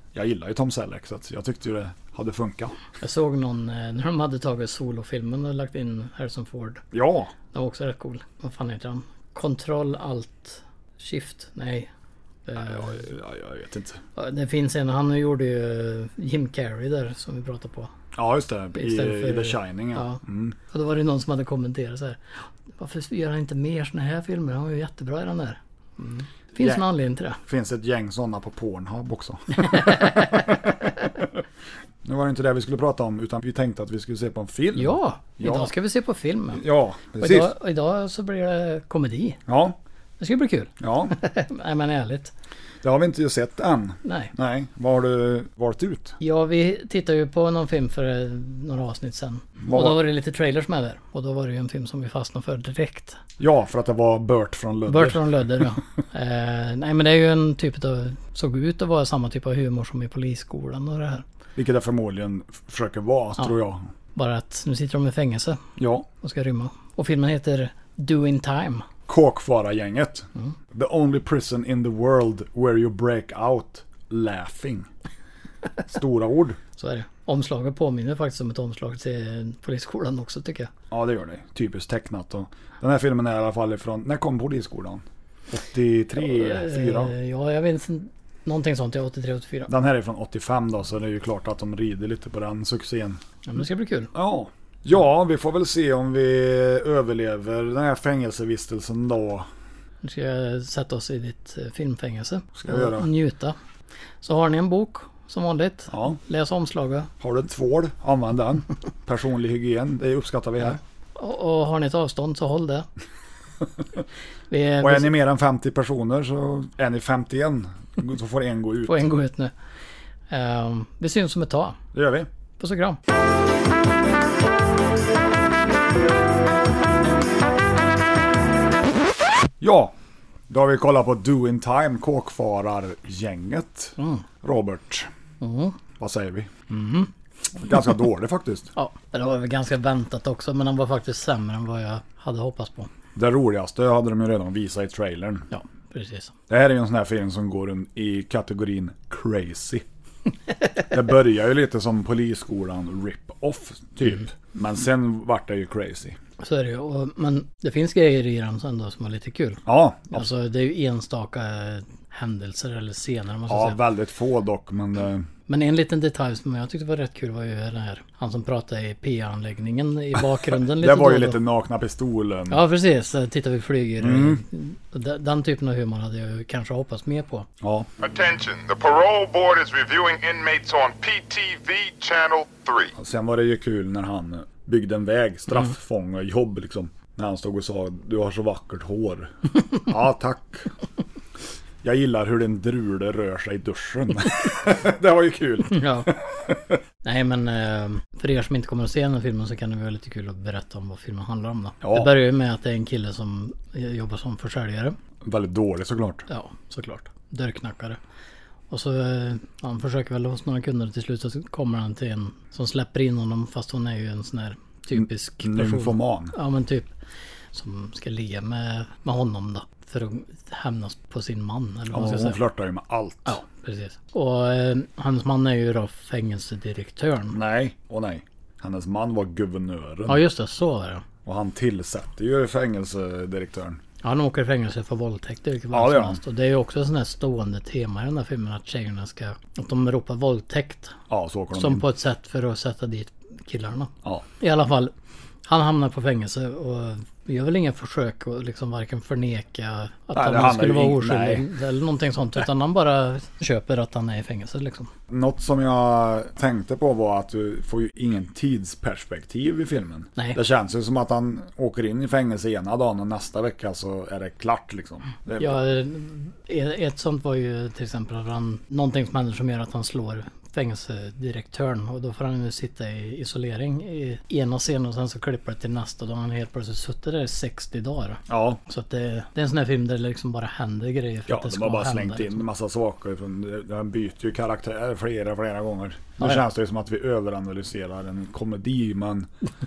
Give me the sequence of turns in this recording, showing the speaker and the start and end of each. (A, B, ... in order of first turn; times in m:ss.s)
0:00.1-0:02.8 A
0:03.0-0:06.8 B
0:06.9-0:07.3 A
0:07.5-0:11.9 B
0:12.5-0:13.1 B
0:12.6-0:14.0 A
0:14.2-0:17.9 B
0:18.2-0:20.6 A
0:18.7-0:27.4 B
0:26.6-0:26.8 A
0:27.4-0:31.4 A
0:29.6-0:30.6 B
0:32.0-0:35.7 A
0:34.8-0:36.6 B
0:36.5-0:37.5 A
0:37.2-0:39.4 B
0:39.5-0:39.8 A
0:40.2-0:42.3 B
0:40.8-0:41.2 A
0:42.8-0:46.2 A
0:44.0-0:44.3 B
0:46.2-0:53.2 B
0:49.6-0:50.0 A
0:53.4-0:55.7 A
0:54.9-1:01.2 B
1:01.6-1:03.8 A
1:04.2-1:05.6 B
1:05.8-1:06.1 A
1:06.2-1:08.8 B
1:09.1-1:14.9 A
1:15.9-1:16.6 A
1:16.8-1:20.7 B
1:20.9-1:27.1 A
1:26.2-1:29.7 B
1:29.7-1:33.2 A
1:33.5-1:34.1 B
1:34.1-1:39.5 A
1:40.0-1:43.6 B
1:42.6-1:43.1 A
1:44.2-1:47.1 B
1:45.9-1:46.2 A
1:47.2-1:50.8 A
1:51.2-1:52.9 B
1:54.5-1:55.1 B
1:54.8-1:59.1 A
1:58.9-1:59.5 B
2:00.3-2:01.8 B
2:01.9-2:02.3 A
2:02.6-2:03.0 B
2:09.6-2:10.0 A
2:10.5-2:15.1 A
2:14.0-2:14.2 B
2:15.4-2:15.8 B
2:16.0-2:16.5 A
2:16.7-2:17.1 B
2:17.6-2:18.7 A
2:18.8-2:22.9 B
2:23.2-2:25.5 A
2:25.5-2:26.4 B
2:26.5-2:29.8 A
2:30.9-2:36.2 A
2:36.4-2:43.8 B
2:39.6-2:40.3 A
2:43.5-2:45.3 A
2:45.5-2:51.4 B
2:50.7-2:52.6 A
2:52.5-2:57.5 B
2:54.0-2:54.4 A
2:57.6-2:57.9 A
2:58.0-3:02.9 C
3:03.0-3:10.7 A
3:11.8-3:16.8 A
3:15.7-3:16.1 B
3:17.0-3:25.0 B
3:21.8-3:22.2 A
3:25.2-3:26.3 A
3:26.3-3:28.0 B
3:28.7-3:36.9 B
3:35.0-3:36.4 A
3:37.5-3:42.4 B
3:41.9-3:43.4 A
3:43.3-3:47.4 B
3:47.3-3:50.2 A
3:50.1-3:51.0 B
3:51.2-3:53.8 A
3:54.0-4:01.0 B
3:55.7-3:56.2 A
4:01.1-4:01.9 A
4:01.5-4:04.9 B
4:05.4-4:14.9 B
4:10.1-4:11.5 A
4:15.1-4:25.6 A
4:25.4-4:42.4 B
4:38.3-4:38.6 A
4:41.3-4:49.3 A